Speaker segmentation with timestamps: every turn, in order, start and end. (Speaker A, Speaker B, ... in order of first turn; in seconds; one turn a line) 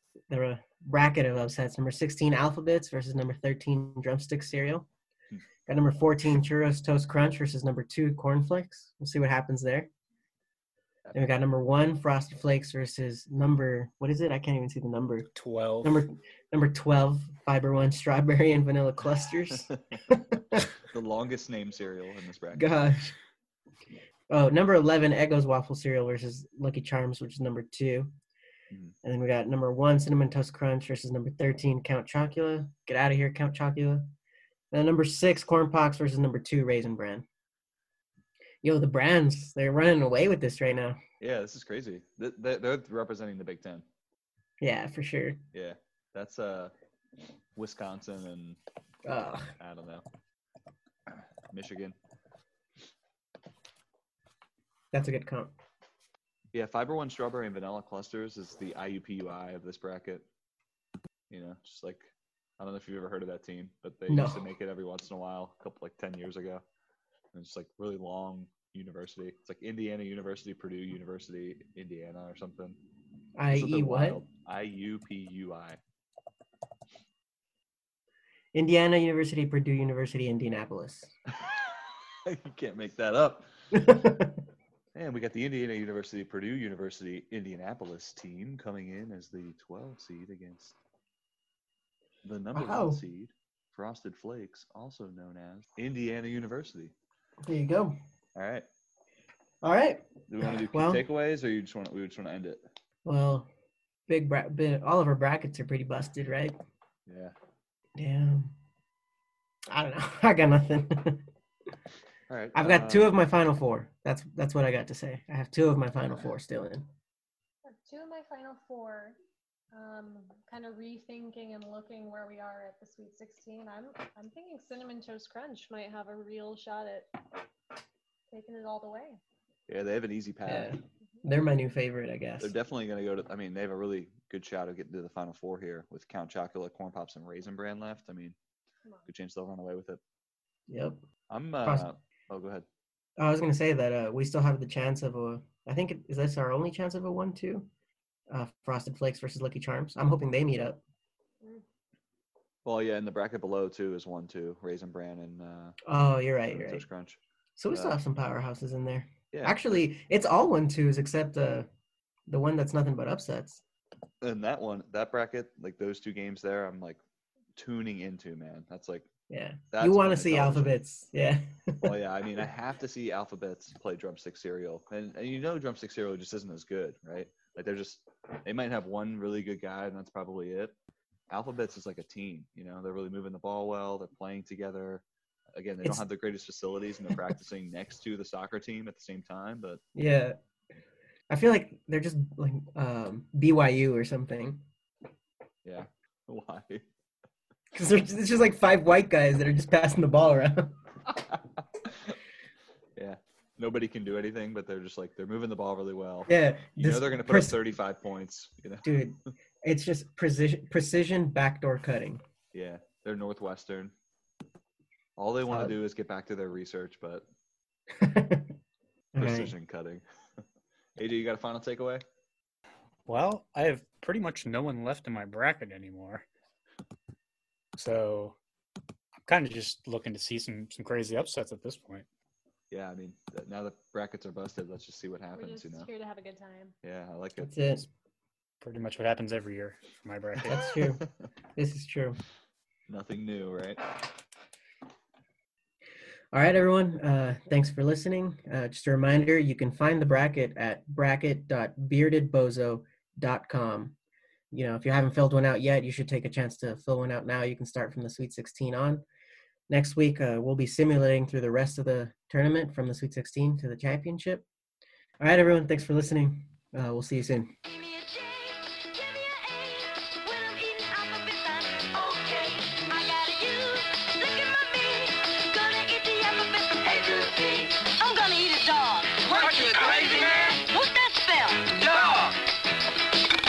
Speaker A: 0.3-4.9
Speaker A: 5.7-9.9
Speaker A: 11.1-15.3
Speaker B: 15.4-16.0
Speaker A: 15.8-20.7
Speaker C: 19.5-20.0
Speaker C: 20.8-22.7
Speaker A: 22.5-23.1
Speaker A: 24.3-28.1
Speaker A: 29.0-34.1
Speaker A: 34.7-37.2
Speaker A: 38.6-41.0
Speaker C: 41.2-43.9
Speaker A: 44.6-45.4
Speaker C: 45.5-46.7
Speaker C: 47.5-48.6
Speaker A: 49.0-49.5
Speaker C: 49.6-50.0
Speaker C: 51.1-52.0
Speaker A: 54.9-55.5
Speaker C: 56.5-60.3
Speaker C: 61.3-66.6
Speaker A: 64.1-64.5
Speaker C: 67.3-72.8
Speaker A: 73.4-74.2
Speaker C: 73.5-75.8
Speaker A: 78.5-81.1
Speaker C: 81.3-83.5
Speaker A: 83.7-84.4
Speaker C: 85.0-90.8
Speaker C: 92.2-96.9
Speaker A: 92.5-93.0
Speaker A: 97.4-98.0
Speaker C: 98.3-98.7
Speaker A: 99.6-101.0
Speaker C: 100.3-102.6
Speaker A: 103.0-103.5
Speaker A: 104.1-106.6
Speaker C: 107.1-107.3
Speaker A: 108.0-108.5
Speaker A: 109.7-111.3
Speaker C: 112.3-113.2
Speaker A: 112.5-116.9
Speaker D: 117.6-119.2
Speaker D: 119.7-127.1
Speaker D: 128.3-129.2
Speaker C: 129.7-130.8
Speaker A: 130.4-132.5
Speaker C: 132.4-138.4
Speaker C: 139.1-140.0
Speaker A: 140.7-141.0
Speaker C: 141.3-142.7
Speaker A: 143.2-147.7
Speaker A: 148.3-150.8
Speaker C: 152.7-155.8
Speaker A: 155.8-156.8
Speaker C: 156.5-158.0
Speaker A: 157.6-161.7
Speaker C: 159.3-159.6
Speaker A: 162.3-163.6
Speaker C: 164.2-167.0
Speaker C: 167.6-169.1
Speaker A: 169.3-172.0
Speaker C: 169.7-170.8
Speaker C: 171.8-180.7
Speaker C: 181.3-189.8
Speaker A: 189.9-190.4
Speaker A: 191.3-194.6
Speaker C: 195.6-196.9
Speaker A: 197.7-200.8
Speaker C: 201.1-202.2
Speaker C: 203.0-209.0
Speaker A: 206.3-207.6
Speaker A: 208.8-212.2
Speaker C: 212.5-213.9
Speaker C: 215.2-217.3
Speaker A: 215.5-215.8
Speaker A: 218.0-218.5
Speaker A: 219.1-219.6
Speaker C: 219.2-220.0
Speaker C: 221.0-222.0
Speaker B: 223.1-226.3
Speaker B: 227.8-228.4
Speaker B: 229.2-232.1
Speaker C: 232.7-235.9
Speaker D: 235.3-236.8
Speaker C: 236.8-237.7
Speaker A: 237.4-237.9
Speaker B: 238.6-240.7
Speaker A: 240.5-241.0
Speaker C: 240.8-241.1
Speaker A: 241.6-242.2
Speaker C: 242.9-243.8
Speaker A: 246.3-253.9
Speaker A: 254.5-259.0
Speaker A: 259.7-264.4
Speaker A: 265.2-267.5
Speaker E: 267.6-282.3